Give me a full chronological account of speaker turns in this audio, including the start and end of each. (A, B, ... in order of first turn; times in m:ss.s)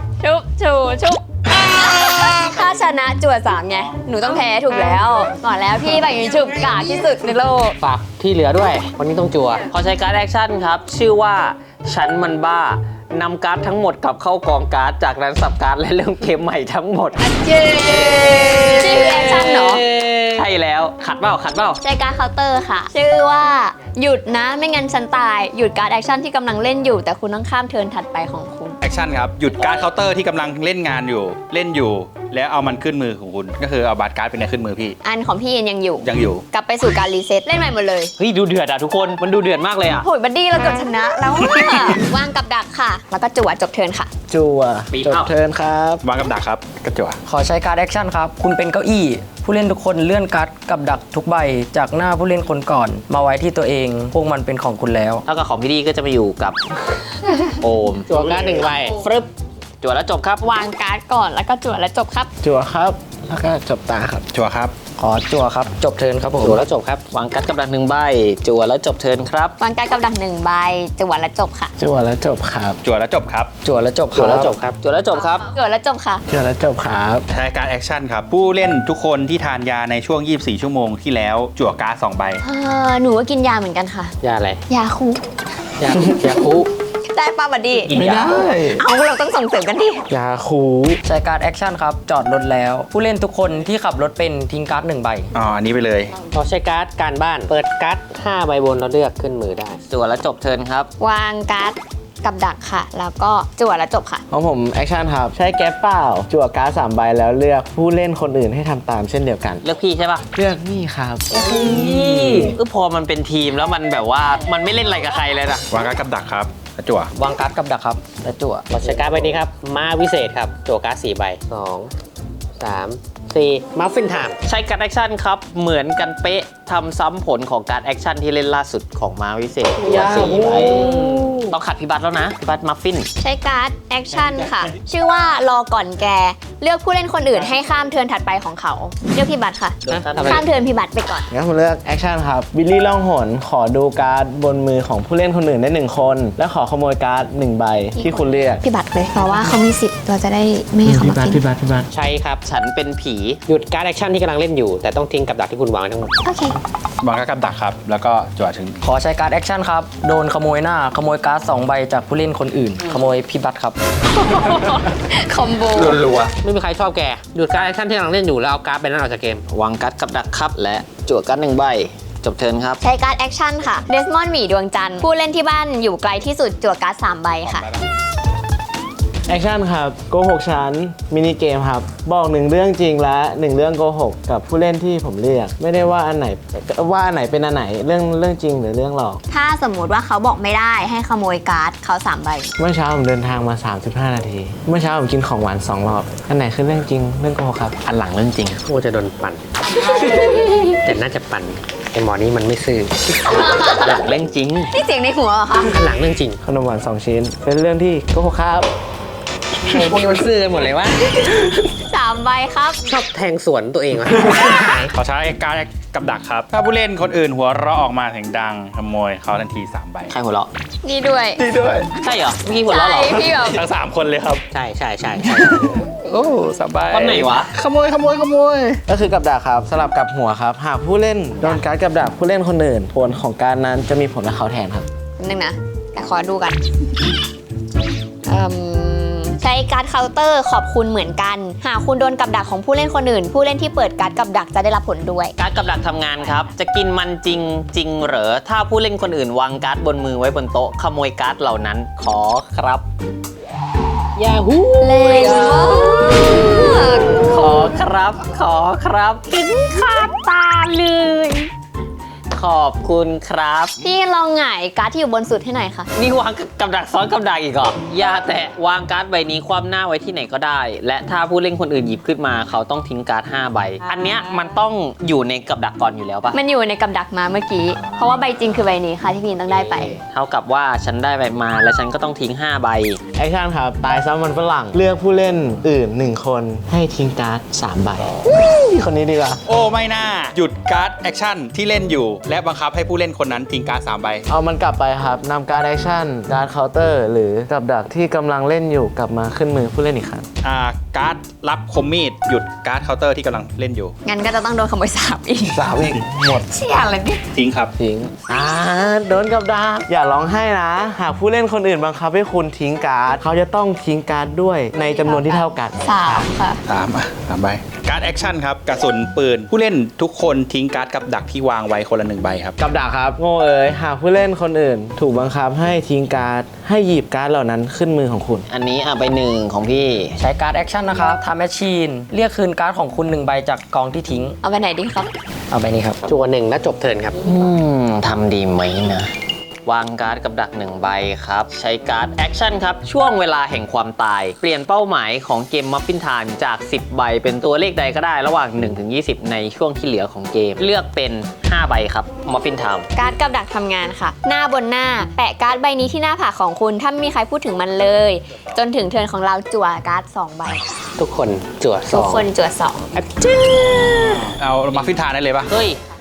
0:00.2-0:07.8 A
0:07.8-0:09.7 B
0:09.7-0:21.8 C
0:17.4-0:18.7 B
0:18.7-0:19.8 A
0:21.8-0:28.8 A
0:28.9-0:35.0 D
0:35.0-0:38.1 A
0:36.0-0:36.4 D
0:38.2-0:40.0 C
0:40.0-0:44.1 A
0:44.3-0:46.0 E
0:44.9-0:45.3 C
0:46.0-0:47.2 D
0:47.3-0:55.2 F
0:55.3-0:56.6 C
0:57.6-0:58.1 C
0:58.1-0:59.0 B
0:58.9-0:59.3 C
0:59.8-1:00.4 C
1:00.4-1:02.3 A
1:02.4-1:04.3 E
1:04.4-1:04.7 D
1:05.0-1:06.6 F
1:06.4-1:07.0 B
1:07.1-1:09.6 C
1:09.6-1:11.7 A
1:11.8-1:12.8 E
1:12.8-1:13.5 D
1:13.6-1:14.5 F
1:14.1-1:14.8 B
1:14.8-1:15.4 C
1:15.4-1:16.2 A
1:16.3-1:17.3 E
1:17.4-1:22.4 D
1:22.4-1:24.1 A
1:24.2-1:24.6 B
1:24.7-1:25.2 A
1:25.8-1:26.7 B
1:27.1-1:28.0 A
1:27.9-1:28.8 E
1:28.8-1:30.0 A
1:30.1-1:31.0 E
1:31.0-1:35.3 F
1:35.4-1:36.1 D
1:36.3-1:39.8 B
1:39.9-1:40.9 C
1:41.0-1:44.2 A
1:44.3-1:49.6 E
1:49.6-1:50.2 C
1:50.3-1:52.6 E
1:51.3-1:55.7 C
1:55.7-1:57.1 D
1:57.2-1:58.7 F
1:58.7-2:01.9 B
2:02.6-2:04.4 B
2:04.4-2:13.1 C
2:09.8-2:11.1 E
2:13.2-2:21.3 A
2:19.9-2:20.4 C
2:19.9-2:20.4 B
2:21.3-2:28.6 E
2:28.0-2:31.4 A
2:30.8-2:31.9 E
2:31.9-2:32.4 B
2:32.4-2:33.4 C
2:33.5-2:36.2 B
2:36.2-2:36.6 A
2:37.0-2:38.8 D
2:38.8-2:43.8 F
2:44.2-2:46.0 A
2:45.9-2:46.3 D
2:46.4-2:49.4 B
2:49.5-2:52.8 C
2:52.8-2:57.7 A
2:57.5-2:57.8 D
2:59.3-3:09.2 E
3:09.3-3:12.5 A
3:12.6-3:17.8 E
3:17.8-3:18.6 C
3:18.7-3:23.2 B
3:19.9-3:20.4 A
3:23.2-3:24.1 A
3:23.3-3:24.7 C
3:24.7-3:25.7 A
3:25.7-3:26.4 B
3:26.4-3:28.7 E
3:29.7-3:31.6 B
3:31.9-3:32.8 A
3:32.8-3:34.9 B
3:35.0-3:40.1 D
3:40.1-3:40.5 C
3:40.8-3:41.4 A
3:41.5-3:41.8 D
3:42.0-3:43.3 C
3:42.7-3:43.6 A
3:43.5-3:44.4 D
3:44.5-3:45.7 B
3:45.4-3:48.8 D
3:46.9-3:47.5 C
3:48.9-3:54.9 E
3:55.2-3:56.6 A
3:58.3-4:05.3 A
4:05.4-4:12.9 C
4:14.2-4:16.5 B
4:14.8-4:17.7 A
4:17.2-4:21.5 C
4:22.3-4:23.8 C
4:23.8-4:25.9 A
4:25.9-4:36.4 C
4:36.3-4:40.0 A
4:40.1-4:43.0 C
4:43.2-4:49.4 E
4:49.5-4:54.2 D
4:54.3-5:00.3 E
5:00.4-5:03.9 D
5:04.0-5:05.6 A
5:05.5-5:06.5 E
5:06.5-5:07.2 A
5:07.4-5:07.7 D
5:07.8-5:15.9 E
5:15.0-5:16.6 A
5:16.7-5:22.6 D
5:22.6-5:28.4 E
5:28.5-5:30.2 C
5:30.2-5:34.4 F
5:34.4-5:35.1 A
5:35.5-5:36.0 F
5:36.1-5:37.2 B
5:37.2-5:39.1 C
5:39.7-5:52.9 C
5:53.0-6:00.7 A
6:01.0-6:02.3 B
6:01.9-6:02.9 A
6:03.0-6:04.4 B
6:04.4-6:05.5 D
6:05.5-6:05.8 C